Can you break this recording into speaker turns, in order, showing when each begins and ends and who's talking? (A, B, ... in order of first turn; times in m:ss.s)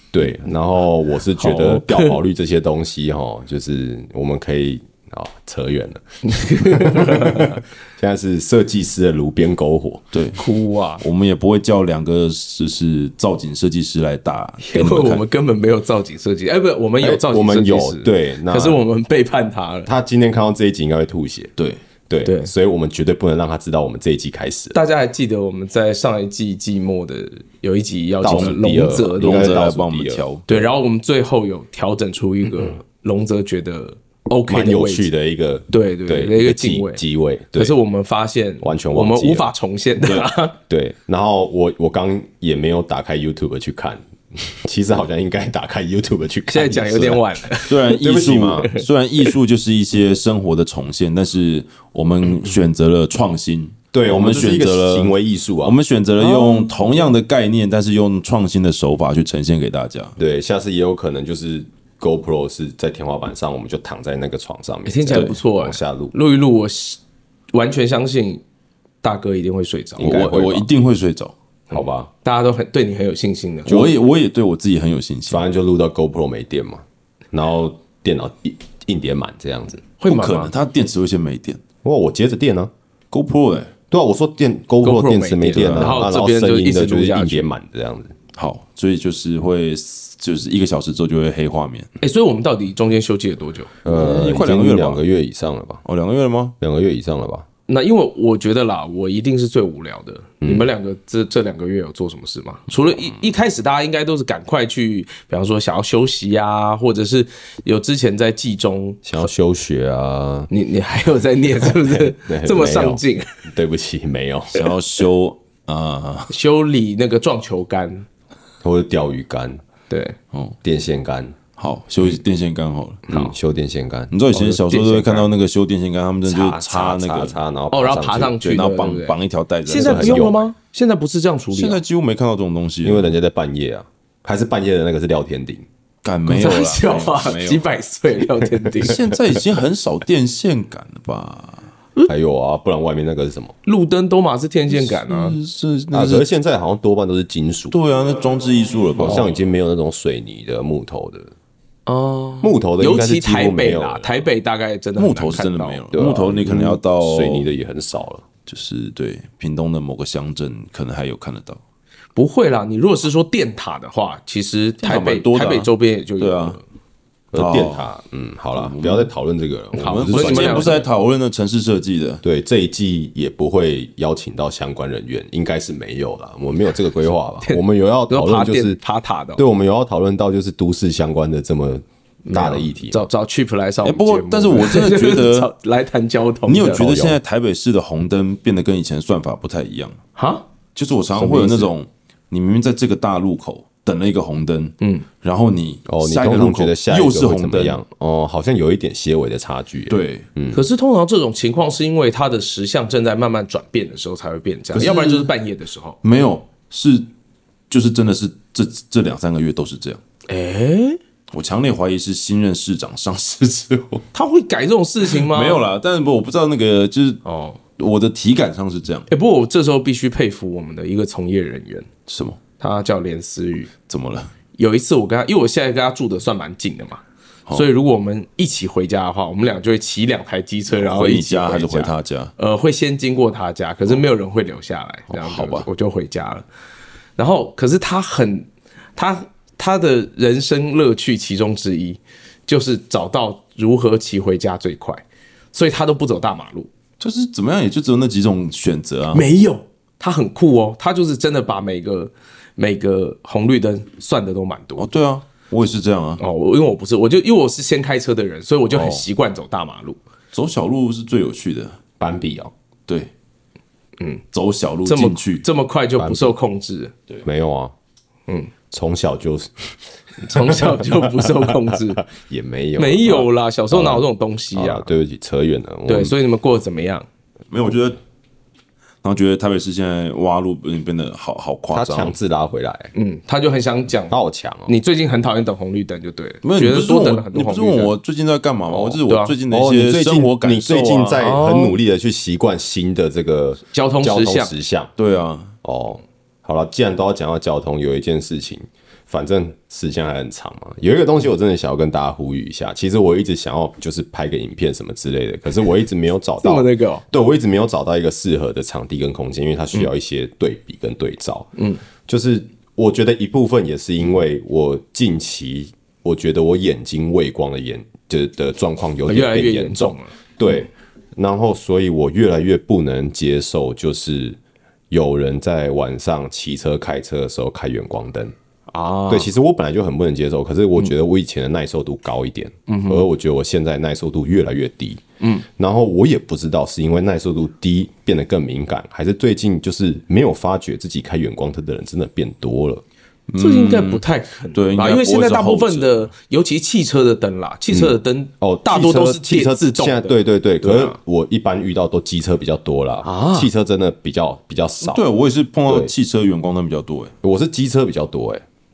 0:00.1-0:10.0 A
0:01.4-0:02.2 B
0:06.2-0:07.6 B
0:10.1-0:10.4 C
0:10.4-0:11.0 B
0:11.0-0:15.2 C
0:14.6-0:19.9 B
0:17.0-0:18.8 A
0:19.9-0:21.5 A
0:22.1-0:24.8 A
0:22.2-0:22.5 B
0:24.7-0:29.6 B
0:28.2-0:30.2 A
0:28.2-0:28.6 C
0:29.2-0:30.6 C
0:30.5-0:35.1 B
0:34.5-0:37.8 A
0:35.7-0:37.0 B
0:37.5-0:40.6 B
0:38.6-0:39.5 A
0:40.7-0:47.2 A
0:46.5-0:48.0 B
0:47.7-1:00.2 C
0:47.9-0:48.7 A
0:48.6-0:48.8 B
0:53.9-0:55.8 A
0:56.2-0:56.7 B
1:00.2-1:06.2 A
1:04.9-1:07.0 B
1:07.5-1:08.4 B
1:09.0-1:10.4 B
1:10.0-1:10.7 A
1:10.0-1:11.3 C
1:11.7-1:12.1 A
1:11.7-1:13.9 B
1:13.7-1:15.4 C
1:15.3-1:19.8 A
1:20.0-1:20.5 B
1:20.1-1:21.6 C
1:21.8-1:22.7 A
1:23.1-1:23.7 C
1:23.9-1:28.2 A
1:24.8-1:27.5 B
1:25.5-1:26.0 C
1:28.4-1:31.9 C
1:32.0-1:33.7 B
1:33.8-1:35.8 A
1:33.8-1:35.0 C
1:35.8-1:36.6 C
1:36.6-1:37.5 A
1:37.7-1:49.2 B
1:40.4-1:40.7 A
1:49.0-1:50.5 A
1:50.5-1:53.4 B
1:51.7-1:54.6 A
1:54.5-1:56.3 C
1:56.3-1:58.1 B
1:58.6-1:59.6 A
1:59.9-2:00.2 B
2:00.6-2:01.4 A
2:01.6-2:03.1 C
2:03.1-2:04.1 A
2:04.1-2:07.4 C
2:04.3-2:05.3 B
2:06.3-2:08.4 A
2:07.7-2:11.8 B
2:08.4-2:10.3 C
2:09.7-2:10.4 A
2:11.5-2:13.1 C
2:12.8-2:15.7 A
2:16.0-2:17.6 C
2:16.3-2:19.0 B
2:18.8-2:21.7 C
2:22.1-2:23.5 A
2:23.6-2:25.4 B
2:24.7-2:26.3 C
2:25.9-2:27.8 A
2:27.7-2:29.3 C
2:29.0-2:31.3 A
2:31.9-2:35.8 B
2:32.4-2:34.2 A
2:35.0-2:37.5 C
2:35.9-2:38.2 A
2:38.5-2:41.6 C
2:42.2-2:46.6 B
2:44.8-2:46.6 C
2:47.3-2:50.8 A
2:47.4-2:47.9 C
2:48.5-2:49.1 C
2:49.8-2:52.2 C
2:49.9-2:50.8 B
2:52.2-2:58.8 A
2:57.4-2:59.4 B
2:59.4-3:03.0 A
3:02.3-3:06.9 B
3:03.8-3:05.5 C
3:06.5-3:10.0 C
3:06.7-3:07.2 A
3:10.2-3:10.5 B
3:10.8-3:17.8 C
3:11.2-3:11.7 B
3:14.8-3:15.1 B
3:15.9-3:20.6 A
3:19.9-3:20.3 C
3:20.5-3:26.0 B
3:24.7-3:25.3 C
3:26.0-3:27.1 C
3:27.7-3:30.0 C
3:30.3-3:31.0 B
3:31.3-3:34.0 C
3:34.1-3:35.6 B
3:35.1-3:37.2 C
3:37.2-3:37.6 B
3:37.8-3:39.1 C
3:39.1-3:41.9 B
3:42.1-3:42.4 C
3:42.6-3:43.7 B
3:43.9-3:44.3 C
3:44.6-3:56.5 B
3:50.7-3:52.3 C
3:55.1-3:55.7 C
3:57.2-4:06.7 B
4:07.0-4:09.3 C
4:09.1-4:14.9 B
4:14.8-4:16.2 C
4:16.2-4:20.0 B
4:18.7-4:19.0 C
4:20.3-4:21.8 C
4:22.0-4:22.5 A
4:24.3-4:25.4 C
4:24.8-4:26.9 B
4:26.0-4:26.4 A
4:27.2-4:27.7 A
4:28.7-4:29.7 A
4:30.2-4:32.0 B
4:30.3-4:36.2 A
4:32.8-4:34.9 B
4:35.9-4:37.1 B
4:37.5-4:38.0 C
4:39.0-4:42.2 C
4:41.7-4:42.9 A
4:42.9-4:47.9 B
4:44.1-4:44.8 A
4:46.4-4:51.2 C
4:48.8-4:49.3 B
4:49.5-4:54.9 A
4:51.2-4:51.8 B
4:53.7-4:54.5 B
4:55.0-4:55.5 C
4:55.6-5:11.5 A
5:06.4-5:07.0 B
5:11.6-5:11.8 B
5:12.1-5:24.4 A
5:19.1-5:20.1 B
5:24.9-5:28.3 A
5:28.7-5:29.3 B
5:29.1-5:42.8 A
5:32.7-5:33.1 B
5:35.2-5:35.5 B
5:43.3-5:44.0 C
5:43.4-5:51.0 B
5:44.5-5:46.1 C
5:47.7-5:55.0 A
5:53.0-5:53.5 B
5:54.8-5:57.1 C
5:55.7-5:55.9 A
5:57.2-5:58.4 A